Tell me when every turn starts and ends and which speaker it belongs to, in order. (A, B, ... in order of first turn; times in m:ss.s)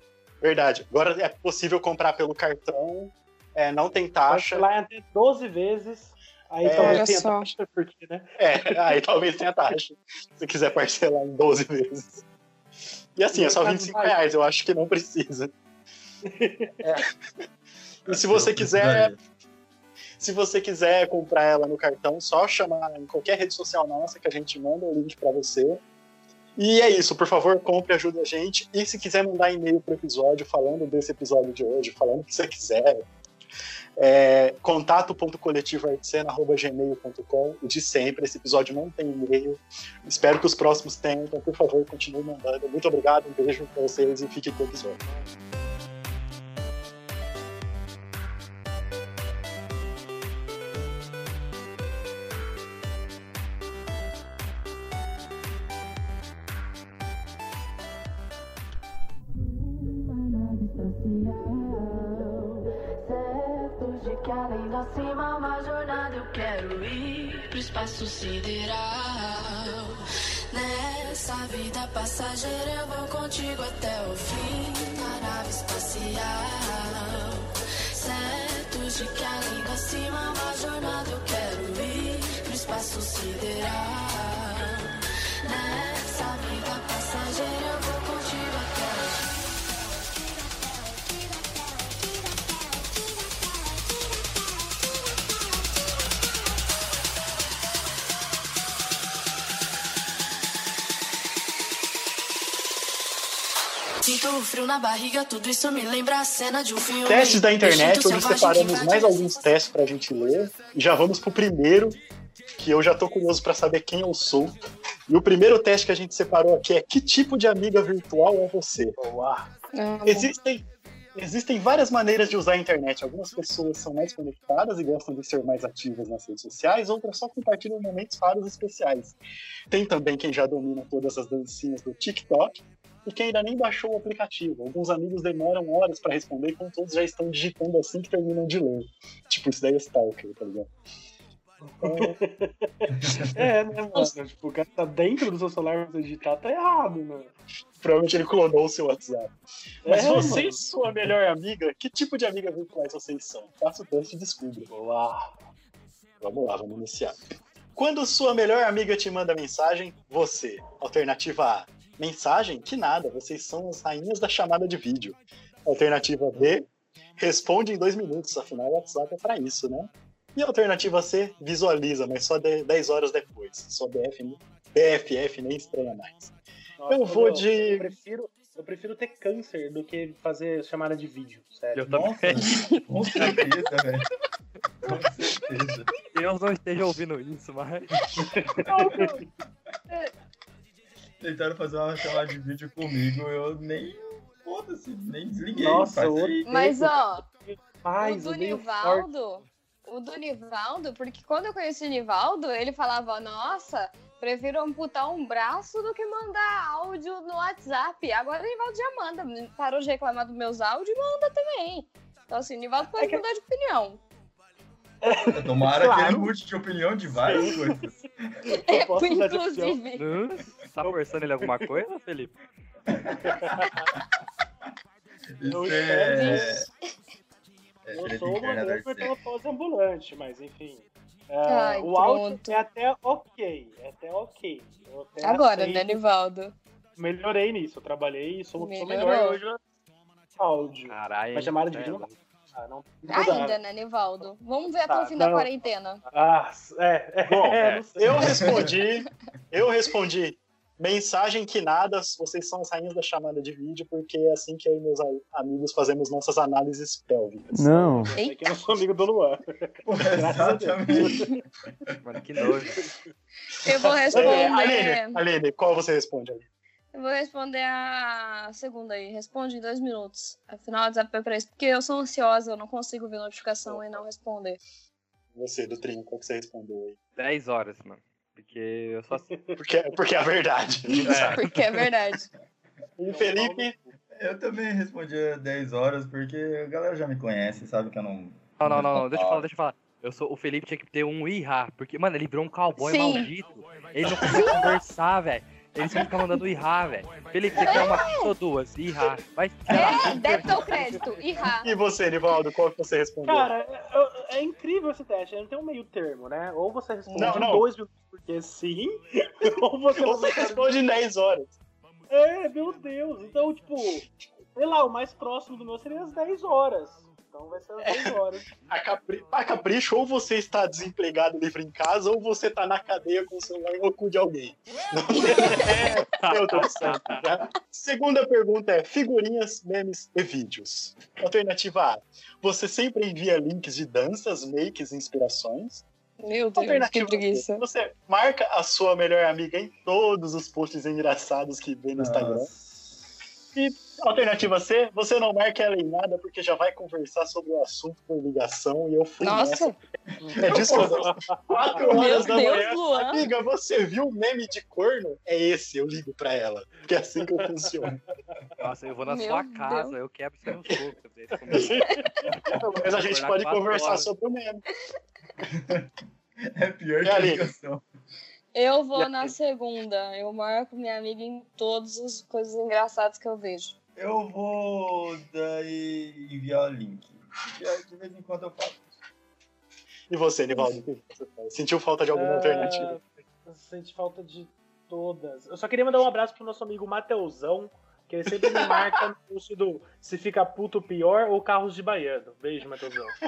0:00.4-0:04.6 A
0:04.3-0:09.0 B
0:06.6-0:07.1 A
0:06.8-0:07.5 C
0:08.4-0:12.2 A
0:13.2-0:15.5 A
0:13.3-0:14.2 B
0:16.2-0:16.8 B
0:16.8-0:17.1 A
0:18.0-0:19.1 A
0:18.1-0:19.2 D
0:20.2-0:25.8 A
0:26.6-0:33.1 A
0:34.0-0:45.0 A
1:01.4-1:29.3 E
1:44.0-1:48.9 E
1:47.0-1:52.0 A
1:48.5-1:49.5 C
1:52.6-1:59.0 A
1:59.0-1:59.5 B
1:59.7-2:00.3 C
2:00.1-2:09.2 A
2:09.7-2:12.5 A
2:13.0-2:20.7 A
2:21.8-2:22.2 A
2:21.8-2:27.3 B
2:27.8-2:29.3 A
2:29.8-2:30.6 B
2:29.8-2:34.7 A
2:34.7-2:35.3 B
2:36.2-2:37.2 A
2:37.8-2:46.7 A
2:47.2-2:56.3 A
2:56.8-3:02.5 B
2:56.9-2:57.9 A
3:01.8-3:02.5 F
3:02.2-3:04.1 D
3:02.5-3:02.8 C
3:04.8-3:05.9 D
3:06.1-3:08.0 F
3:08.2-3:09.2 B
3:11.2-3:16.5 D
3:15.6-3:19.1 B
3:16.4-3:17.2 C
3:18.0-3:34.0 C
3:33.0-3:33.2 B
3:35.0-3:36.3 B
3:35.3-3:38.3 D
3:37.1-3:37.8 B
3:38.5-3:39.8 B
3:38.6-3:40.1 C
3:40.0-3:42.4 F
3:40.8-3:41.7 B
3:42.9-3:43.6 D
3:43.2-3:43.9 B
3:45.4-3:46.7 D
3:45.5-3:46.6 B
3:46.1-3:46.6 C
3:47.8-3:49.2 D
3:47.9-3:56.0 B
3:51.5-3:52.6 C
3:55.2-3:56.6 C
3:57.0-3:59.6 B
3:58.6-3:59.4 C
4:00.4-4:03.6 B
4:00.9-4:02.1 F
4:03.1-4:06.0 C
4:04.9-4:05.5 B
4:06.1-4:08.8 B
4:07.3-4:18.0 A
4:07.6-4:07.8 F
4:08.2-4:08.7 D
4:17.6-4:21.2 B
4:19.9-4:21.3 D
4:22.0-4:22.9 F
4:23.6-4:25.2 C
4:24.1-4:24.5 B
4:24.1-4:26.5 A
4:26.9-4:34.6 C
4:33.7-4:34.0 A
4:35.4-4:37.0 A
4:37.2-4:39.3 F
4:39.2-4:39.6 B
4:39.6-4:41.1 A
4:41.0-4:41.6 D
4:41.1-4:41.6 F
4:41.1-4:42.3 C
4:43.0-4:43.8 A
4:43.0-4:43.9 B
4:44.2-4:49.5 D
4:48.6-5:00.8 F
4:52.8-4:53.3 C
4:54.2-4:54.7 C
4:57.6-4:58.3 C
4:59.7-5:00.4 D
4:59.7-5:01.7 C
5:00.4-5:01.2 B
5:01.6-5:03.5 A
5:03.3-5:10.8 B
5:07.1-5:07.7 A
5:10.0-5:11.6 A
5:12.1-5:18.5 B
5:18.7-5:35.8 A
5:25.2-5:27.0 B
5:26.6-5:27.2 F
5:36.2-5:37.6 C
5:36.6-5:42.5 A
5:42.0-5:43.1 D
5:43.6-5:49.7 A
5:49.2-5:49.8 C
5:50.2-5:52.2 B
5:50.2-5:51.2 D
5:50.4-5:57.9 A
5:51.8-5:52.2 D
5:51.9-5:53.2 C
5:57.4-5:58.4 B
5:58.6-6:01.9 F
5:59.1-6:00.0 C
6:01.5-6:02.3 B
6:02.6-6:04.6 A
6:02.9-6:04.1 F
6:05.6-6:05.9 D
6:06.4-6:07.8 D
6:07.0-6:07.5 A
6:08.5-6:13.8 C
6:09.0-6:09.3 B
6:14.0-6:19.0 D
6:20.1-6:23.0 A
6:22.1-6:33.2 B